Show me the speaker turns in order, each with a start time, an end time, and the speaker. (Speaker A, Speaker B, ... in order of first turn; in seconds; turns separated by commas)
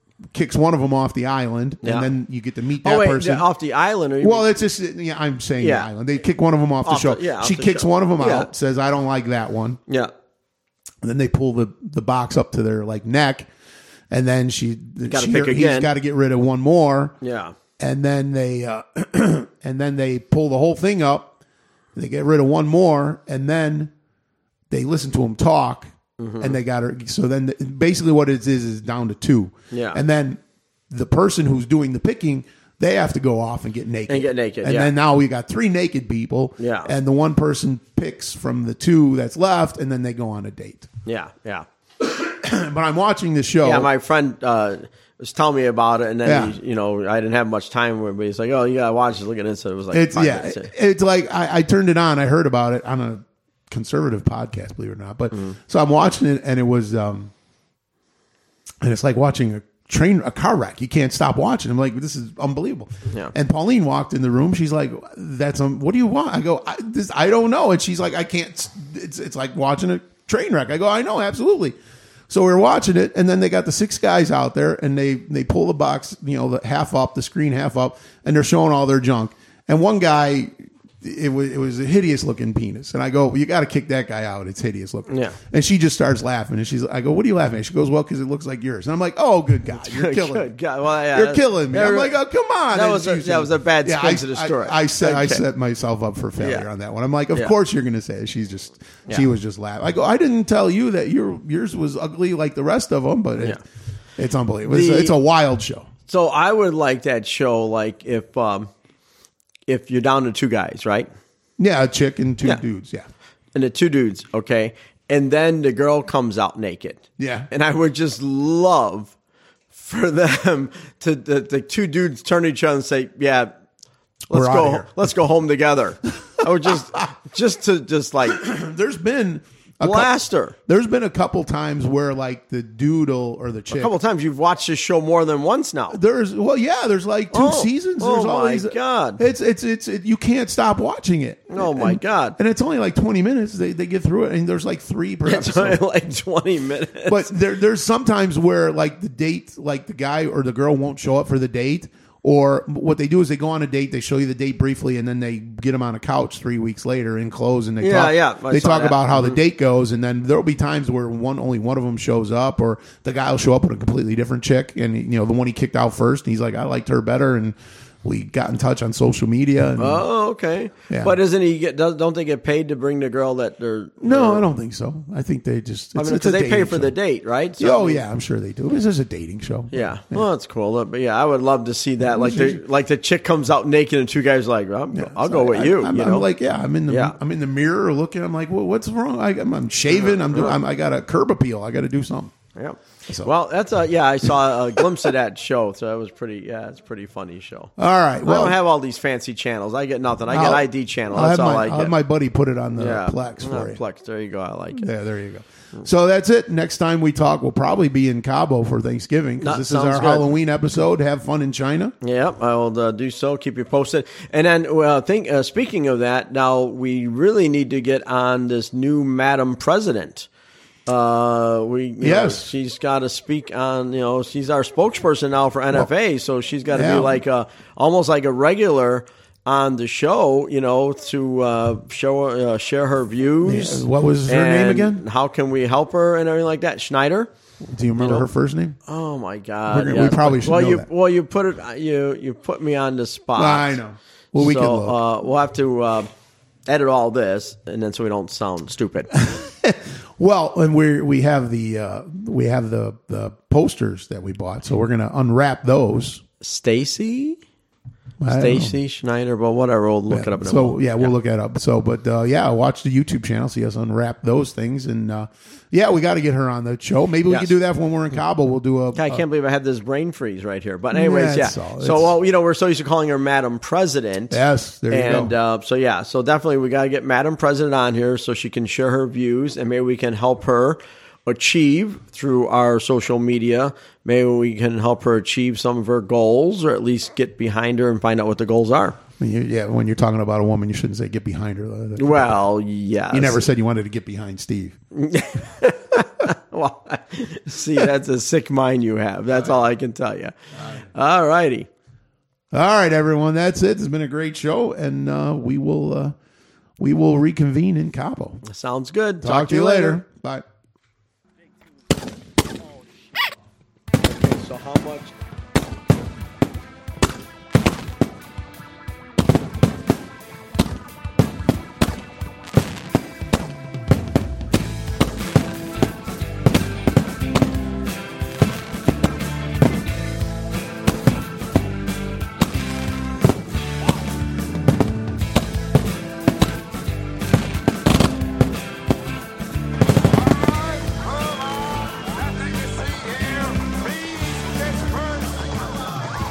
Speaker A: 0.3-3.5, Speaker B: 1.8-2.1, Speaker B: 2.8-4.5, Speaker A: 4.2-9.8, Speaker B: 5.6-5.9, Speaker B: 6.8-8.5, Speaker A: 11.0-13.5, Speaker A: 14.1-17.2, Speaker B: 15.1-15.9, Speaker B: 17.2-17.6, Speaker A: 17.8-21.4, Speaker A: 21.9-23.9, Speaker A: 24.7-40.9, Speaker B: 26.2-26.6, Speaker B: 29.7-30.0, Speaker B: 34.1-34.9, Speaker B: 36.6-36.9, Speaker B: 41.0-41.7, Speaker A: 42.0-43.9, Speaker B: 43.6-50.7, Speaker A: 46.2-46.6, Speaker A: 49.9-57.3, Speaker B: 55.3-55.6, Speaker A: 58.8-71.7, Speaker A: 72.3-90.5, Speaker B: 85.1-85.4, Speaker B: 89.7-92.2, Speaker A: 91.1-103.6, Speaker B: 92.7-95.5, Speaker B: 96.4-96.7, Speaker A: 104.2-105.9, Speaker B: 104.7-105.1, Speaker B: 106.1-108.7, Speaker B: 109.7-111.1, Speaker A: 111.6-113.1, Speaker B: 113.5-119.1, Speaker A: 117.2-117.5, Speaker B: 119.7-123.5, Speaker A: 124.3-125.0, Speaker B: 124.3-128.4, Speaker A: 128.3-133.9, Speaker B: 129.8-130.6, Speaker B: 133.7-136.0, Speaker A: 135.9-145.8, Speaker B: 137.3-139.2, Speaker B: 141.5-142.4, Speaker B: 145.2-147.3, Speaker A: 147.1-170.1, Speaker B: 157.8-159.4, Speaker B: 169.8-174.4, Speaker A: 170.9-171.2, Speaker A: 174.0-176.9, Speaker B: 175.9-178.0, Speaker A: 177.6-180.3, Speaker B: 179.7-186.3, Speaker A: 182.1-182.6, Speaker A: 184.9-192.3, Speaker B: 186.9-187.2, Speaker B: 189.9-190.6, Speaker B: 192.6-197.7, Speaker A: 193.1-193.3, Speaker A: 197.8-198.6, Speaker B: 198.2-201.9, Speaker A: 200.3-203.8, Speaker B: 202.8-204.9, Speaker A: 204.8-211.9, Speaker B: 209.4-210.3, Speaker B: 212.0-220.3, Speaker B: 220.9-237.3, Speaker A: 222.0-222.5, Speaker A: 226.7-227.2, Speaker A: 233.4-235.0, Speaker A: 237.6-238.8, Speaker B: 238.0-238.3, Speaker B: 238.9-243.8, Speaker A: 239.7-240.9, Speaker A: 243.4-245.0, Speaker B: 244.3-246.1, Speaker B: 246.7-249.2, Speaker A: 249.2-256.2, Speaker B: 256.4-257.4, Speaker A: 258.2-258.8, Speaker B: 258.3-261.1, Speaker A: 260.1-269.3, Speaker B: 267.3-267.5, Speaker B: 268.9-289.0, Speaker A: 270.9-272.2, Speaker A: 274.3-275.3, Speaker A: 289.2-292.4, Speaker B: 292.0-293.4, Speaker A: 293.1-294.8, Speaker B: 294.9-300.3, Speaker B: 300.9-301.7, Speaker A: 302.5-306.2, Speaker A: 306.8-308.4, Speaker B: 308.4-310.0, Speaker A: 309.2-310.4, Speaker B: 314.0-315.1, Speaker C: 340.1-346.1